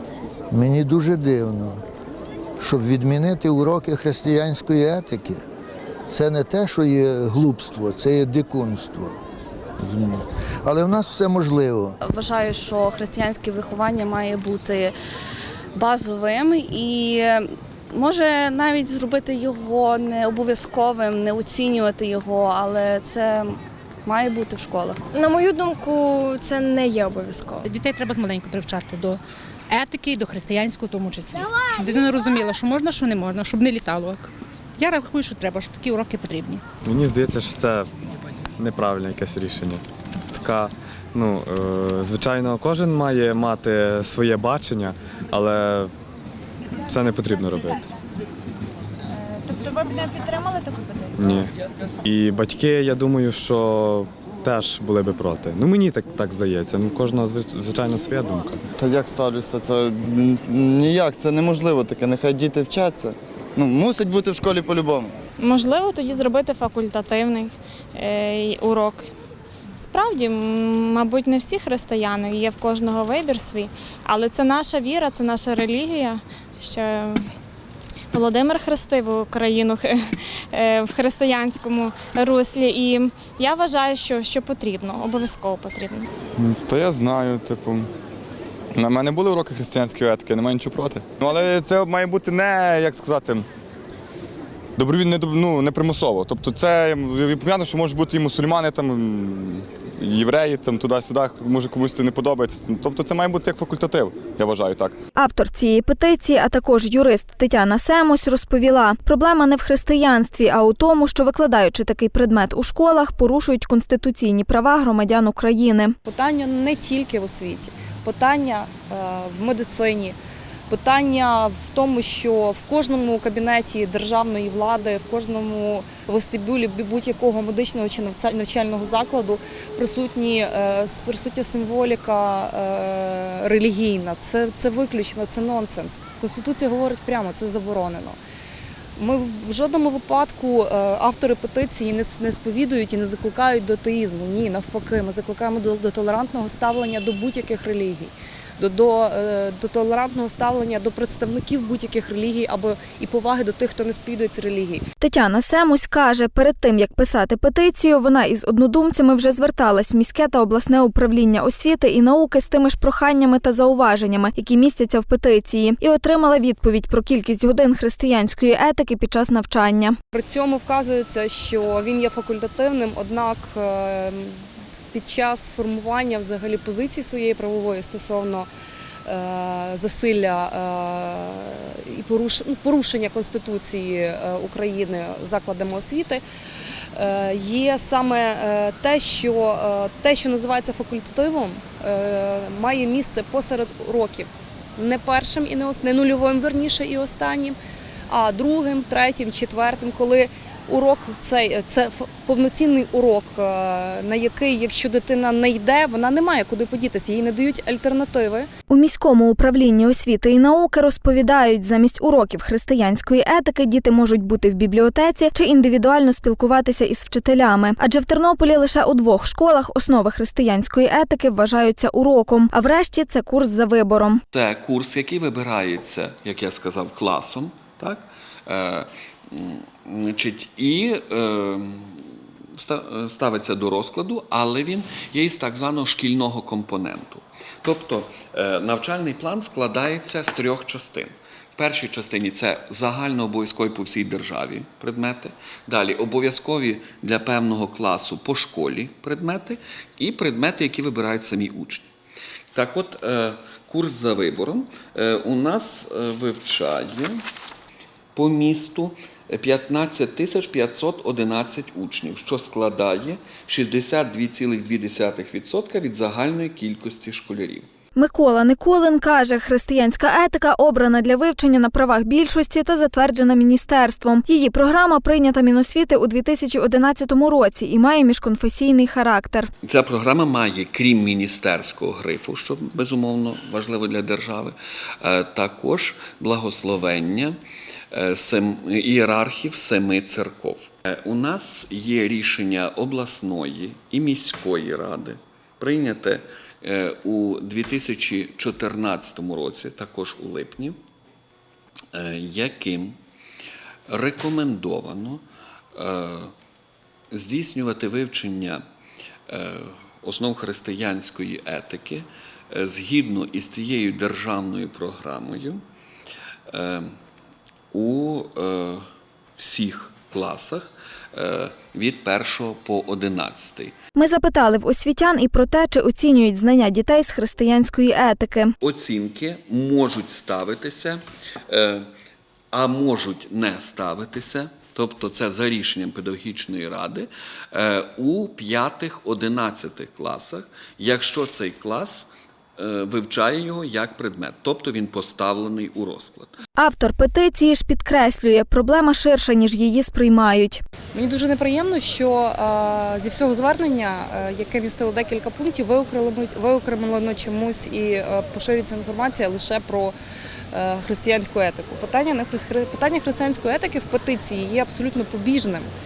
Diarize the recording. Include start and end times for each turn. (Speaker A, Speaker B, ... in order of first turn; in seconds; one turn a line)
Speaker A: 0.5-1.8
Speaker A: 2.6-5.4
Speaker A: 6.1-9.2
Speaker A: 9.8-11.9
Speaker B: 12.0-14.9
Speaker B: 15.7-25.1
Speaker C: 25.2-27.6
Speaker D: 27.6-36.6
Speaker E: 36.9-37.9
Speaker E: 38.6-39.8
Speaker E: 40.3-45.9
Speaker E: 46.9-47.8
Speaker E: 51.2-51.5
Speaker E: 52.0-58.6
Speaker F: 58.8-65.2
Speaker G: 65.4-69.1
Speaker G: 69.8-77.2
Speaker G: 78.1-86.1
Speaker H: 86.4-87.9
Speaker H: 88.8-93.5
Speaker H: 94.8-105.0
Speaker I: 105.2-116.0
Speaker J: 116.0-120.2
Speaker J: 120.7-138.2
Speaker J: 139.0-154.9
Speaker I: 155.0-170.0
Speaker J: 170.1-178.5
Speaker J: 179.0-186.2
Speaker J: 186.9-208.5
Speaker I: 208.7-224.2
Speaker K: 224.3-232.0
Speaker K: 232.6-251.9
Speaker K: 252.5-257.2
Speaker K: 258.1-267.7
Speaker I: 268.0-279.5
Speaker K: 279.6-287.4
Speaker K: 287.9-300.8
Speaker K: 301.9-303.0
Speaker K: 303.9-305.2
Speaker K: 305.8-306.3
Speaker K: 307.1-308.6
Speaker K: 309.3-315.6
Speaker K: 316.5-316.9
Speaker K: 317.7-318.8
Speaker K: 319.4-323.7
Speaker I: 324.0-328.5
Speaker K: 328.6-331.9
Speaker K: 332.5-346.3
Speaker I: 346.6-350.6
Speaker J: 350.9-360.0
Speaker J: 360.5-365.7